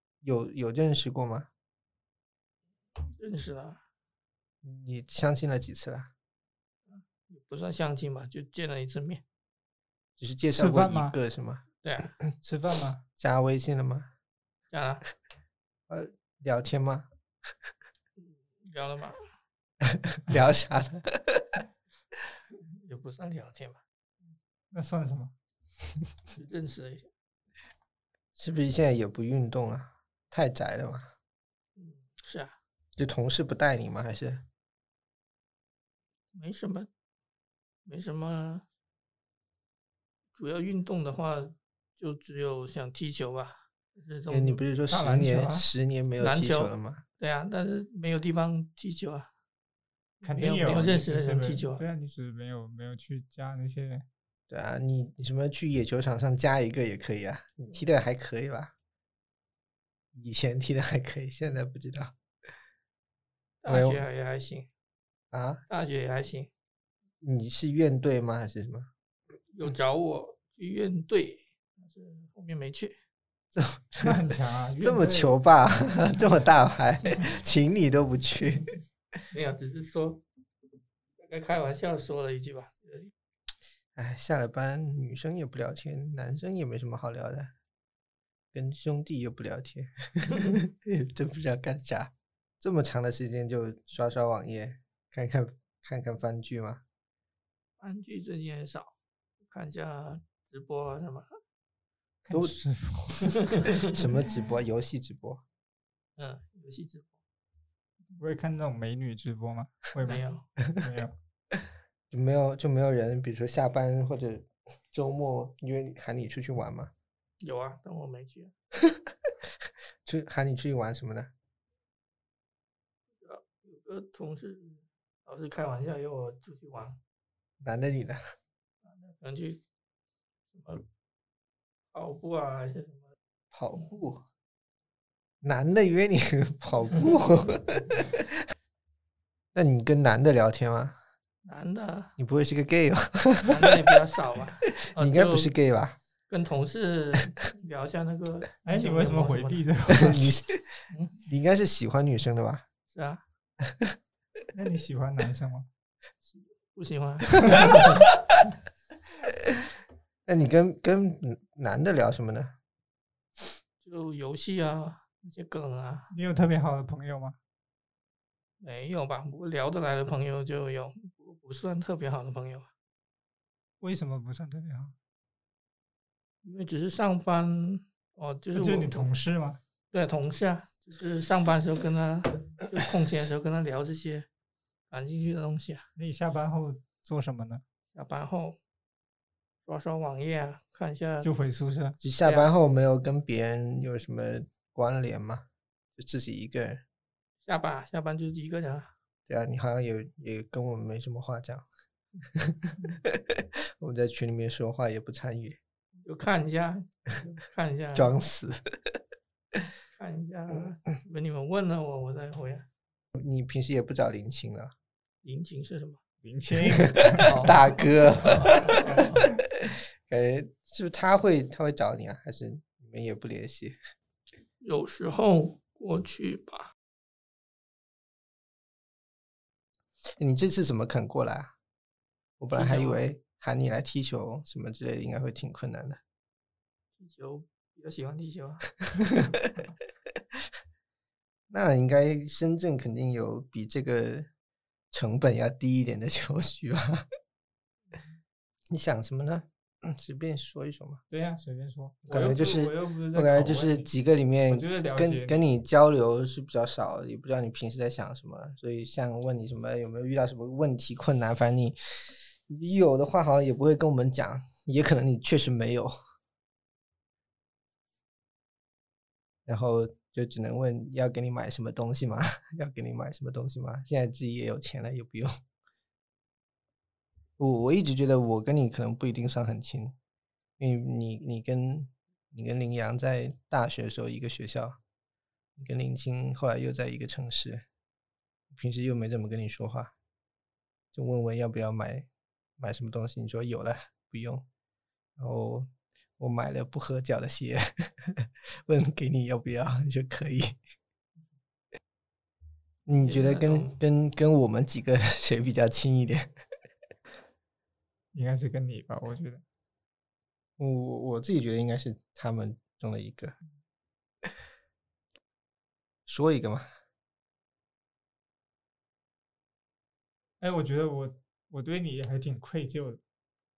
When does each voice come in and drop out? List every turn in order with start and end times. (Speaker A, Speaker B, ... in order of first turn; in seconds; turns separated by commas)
Speaker A: 0.2-1.5, Speaker B: 3.2-3.8, Speaker A: 4.6-6.1, Speaker B: 6.9-9.2, Speaker A: 10.2-11.6, Speaker C: 10.5-11.2, Speaker B: 11.8-12.2, Speaker C: 12.4-13.0, Speaker A: 13.2-14.1, Speaker B: 14.7-15.1, Speaker A: 15.9-17.1, Speaker B: 18.2-19.2, Speaker A: 19.8-21.6, Speaker B: 22.7-23.8, Speaker C: 24.7-25.3, Speaker B: 26.3-27.1, Speaker A: 28.4-31.1, Speaker B: 31.8-32.6, Speaker A: 33.0-34.4, Speaker B: 36.3-36.9, Speaker B: 37.9-38.7, Speaker B: 40.3-44.6, Speaker A: 44.3-47.0, Speaker C: 44.9-45.7, Speaker B: 46.2-49.3, Speaker B: 50.2-51.8, Speaker C: 50.2-54.1, Speaker A: 54.5-58.7, Speaker A: 60.1-62.1, Speaker B: 63.6-64.7, Speaker A: 63.7-64.0, Speaker A: 65.3-65.6, Speaker B: 65.7-66.5, Speaker A: 67.2-68.9, Speaker B: 69.5-73.0, Speaker A: 73.5-74.3, Speaker C: 74.0-75.4, Speaker A: 74.8-78.7, Speaker B: 79.3-80.2, Speaker B: 81.2-83.1, Speaker A: 84.0-87.5, Speaker A: 88.5-96.8, Speaker B: 97.8-99.0, Speaker B: 99.5-101.3, Speaker C: 102.2-103.6, Speaker A: 103.9-105.4, Speaker B: 106.2-107.2, Speaker C: 108.2-111.1, Speaker B: 110.1-110.5, Speaker A: 112.1-116.9, Speaker B: 117.4-118.5, Speaker A: 120.0-121.3, Speaker B: 123.2-127.0, Speaker A: 127.6-128.2, Speaker B: 128.8-129.6, Speaker B: 130.5-130.8, Speaker B: 131.9-133.1, Speaker A: 133.5-134.2, Speaker A: 135.4-138.4, Speaker A: 139.5-141.0, Speaker B: 141.4-142.2, Speaker A: 142.2-143.9, Speaker B: 143.4-145.5, Speaker A: 144.9-146.0, Speaker B: 146.3-149.7, Speaker C: 148.7-150.3, Speaker A: 149.9-152.7, Speaker B: 152.9-153.2, Speaker A: 153.7-153.9, Speaker C: 154.5-155.7, Speaker B: 156.3-158.0, Speaker A: 160.3-162.6, Speaker B: 163.8-166.1, Speaker C: 166.1-167.4, Speaker B: 168.6-172.7, Speaker C: 173.8-174.9, Speaker B: 176.4-179.1, Speaker C: 178.6-179.6, Speaker B: 179.9-184.3, Speaker B: 184.9-185.8, Speaker C: 186.0-187.6, Speaker B: 187.9-188.6, Speaker B: 189.7-191.3, Speaker C: 191.2-192.0, Speaker A: 192.0-195.5, Speaker B: 192.2-192.5, Speaker A: 196.0-196.8, Speaker B: 197.4-198.9, Speaker A: 199.3-201.7, Speaker A: 202.3-205.6, Speaker B: 206.0-208.2, Speaker A: 207.9-209.0, Speaker B: 210.0-212.7, Speaker A: 213.2-214.7, Speaker B: 215.2-216.0, Speaker C: 216.2-217.8, Speaker A: 216.8-218.8, Speaker B: 217.2-219.2, Speaker C: 218.8-219.4, Speaker A: 219.6-223.8, Speaker B: 224.6-226.7, Speaker A: 230.2-231.5, Speaker A: 232.4-236.0, Speaker B: 232.5-233.0, Speaker B: 237.0-238.7, Speaker A: 239.1-239.5, Speaker A: 241.5-244.3, Speaker A: 244.9-247.1, Speaker A: 248.7-251.0, Speaker C: 251.1-253.9, Speaker A: 252.1-265.9, Speaker C: 254.5-255.4, Speaker A: 269.5-275.3, Speaker A: 277.4-279.9, Speaker A: 280.6-284.8, Speaker A: 285.6-287.6, Speaker A: 288.5-289.9, Speaker A: 290.9-292.1, Speaker A: 292.6-294.5, Speaker A: 295.2-300.6, Speaker A: 302.9-306.3, Speaker B: 303.0-303.8, Speaker C: 308.1-309.4, Speaker A: 310.6-313.4, Speaker A: 316.1-316.7, Speaker C: 320.4-323.0